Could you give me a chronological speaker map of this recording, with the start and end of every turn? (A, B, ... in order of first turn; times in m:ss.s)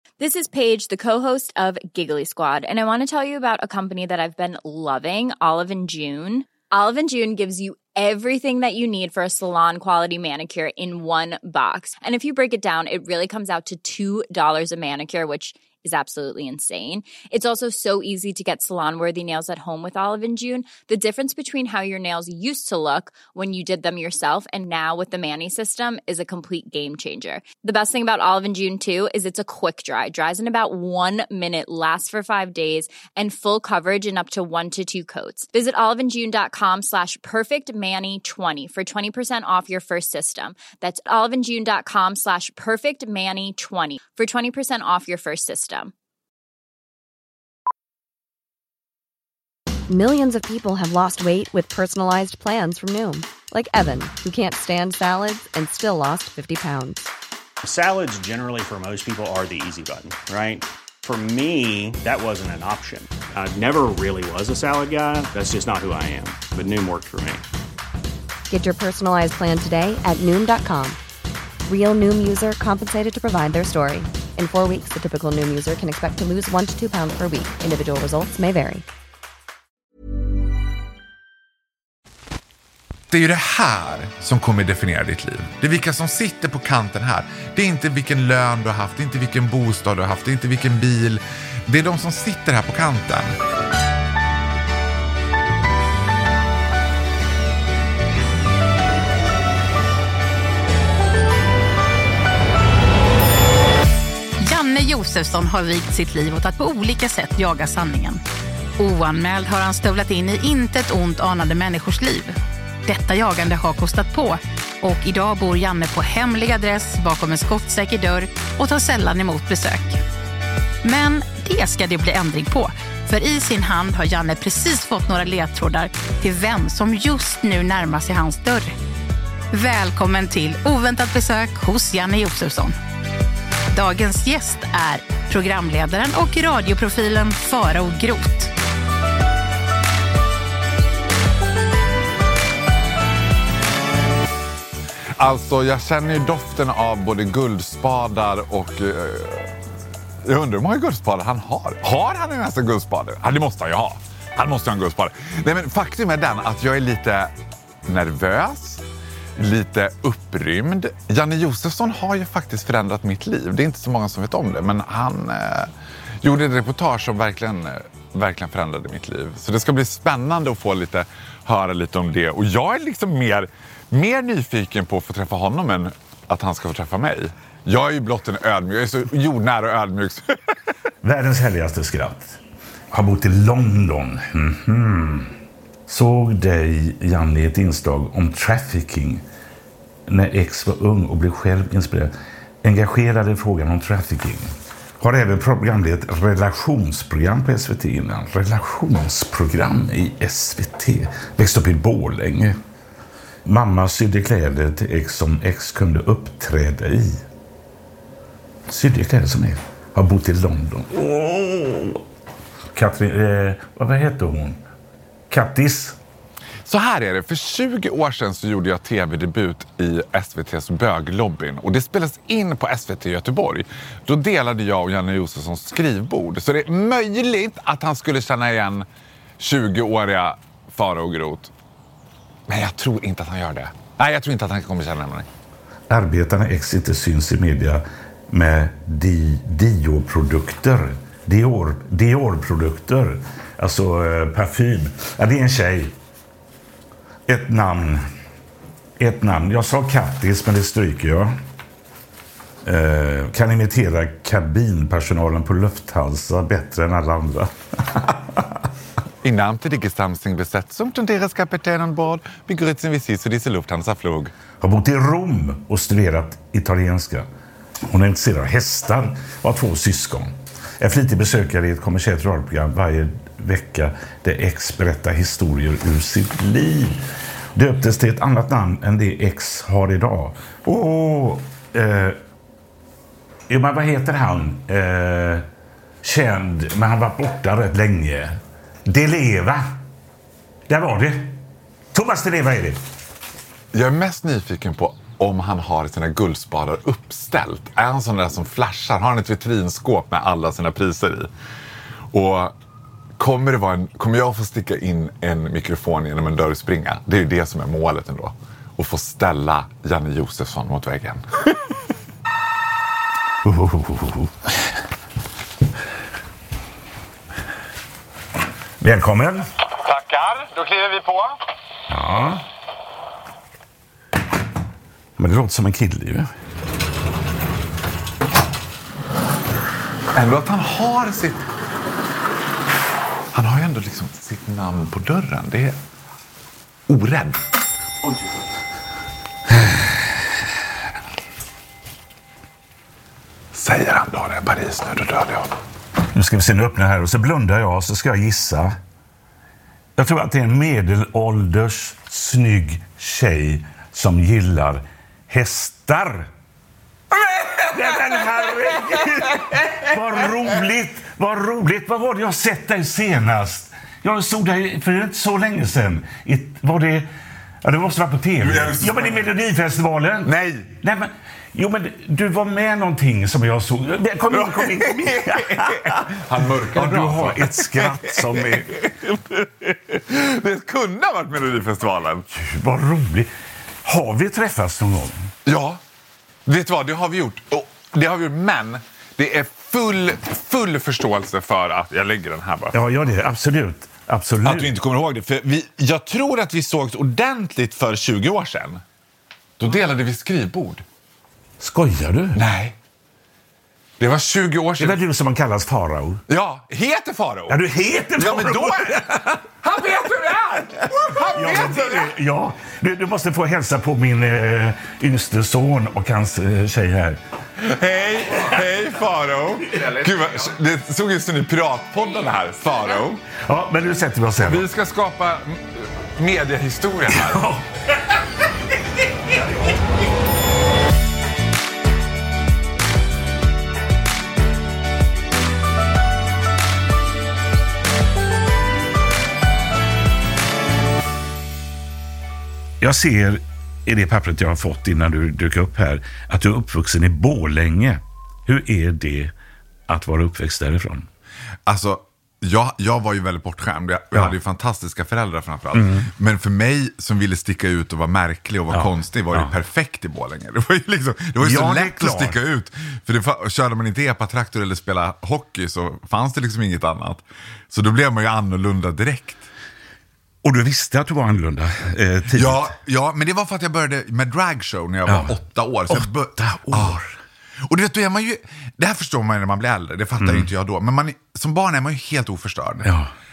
0:00.2-0:45.9 A
0:49.9-0:57.1 B
0:57.6-1:07.4 C
1:08.5-1:11.0 B
1:11.7-1:18.8 B
1:23.1-1:33.4 D
1:44.4-1:48.2 E
1:48.8-2:00.0 E
2:00.8-2:08.8 E
2:09.5-2:12.8 E
2:13.7-2:18.5 E
2:25.2-2:29.6 D
2:30.2-2:37.3 D
2:37.9-2:38.8 D
2:39.4-2:45.7 D
2:46.2-3:00.4 D
3:01.0-3:02.4 F
3:02.9-3:05.3 F
3:05.9-3:09.2 F
3:10.1-3:12.1 F
3:12.6-3:22.6 F
3:23.4-3:27.2 F
3:28.7-3:32.0 F
3:32.8-3:34.6 F
3:35.3-3:36.0 F
3:36.7-3:48.9 D
3:49.4-3:51.5 D
3:52.5-3:55.3 D
3:55.9-4:05.9 F
4:07.3-4:08.0 F
4:09.0-4:11.3 F
4:12.6-4:18.4 F
4:19.2-4:24.3 D
4:24.6-4:27.3 F
4:27.9-4:37.0 F
4:37.6-4:42.2 F
4:43.5-4:45.5 F
4:46.0-4:49.8 F
4:50.7-4:51.4 F
4:51.9-4:52.8 F
4:53.7-5:01.3 D
5:02.1-5:02.5 D
5:03.2-5:11.2 D
5:13.4-5:14.3 F
5:18.8-5:19.5 F
5:19.8-5:21.4 D
5:21.9-5:22.4 F
5:25.2-5:26.3 F
5:30.1-5:31.4 D
5:33.3-5:35.8 D
5:36.9-5:37.4 D
5:39.5-5:40.0 F
5:43.5-5:45.5 D
5:46.1-5:48.8 F
5:50.0-5:56.3 F
5:57.2-5:57.7 D
5:57.7-6:07.1 F
6:07.6-6:16.0 F
6:08.4-6:09.2 D
6:10.2-6:10.7 D
6:14.3-6:22.3 D
6:16.7-6:18.9 F
6:22.3-6:23.3 F
6:23.8-6:25.3 F
6:25.5-6:25.8 D
6:26.5-6:32.9 D
6:32.7-6:34.7 F
6:34.4-6:38.8 D
6:39.6-6:40.8 D
6:41.6-6:42.4 F
6:42.4-6:42.8 D
6:44.0-6:45.0 D
6:44.8-6:46.2 F
6:46.3-6:47.6 D
6:47.5-6:49.4 F
6:48.2-6:52.1 D
6:51.1-6:57.2 F
6:57.6-7:03.2 D
7:03.3-7:04.6 F
7:04.4-7:07.4 D
7:07.1-7:07.6 F
7:22.8-7:29.3 F
7:29.9-7:31.1 F
7:31.7-7:49.5 D
7:35.7-7:36.1 F
7:38.7-7:39.5 F
7:41.4-7:42.4 F
7:50.4-7:52.7 F
7:52.3-7:57.0 D
7:55.1-7:55.4 F
7:55.9-7:57.2 F
7:57.6-8:02.9 D
8:00.2-8:00.5 F
8:02.8-8:03.1 F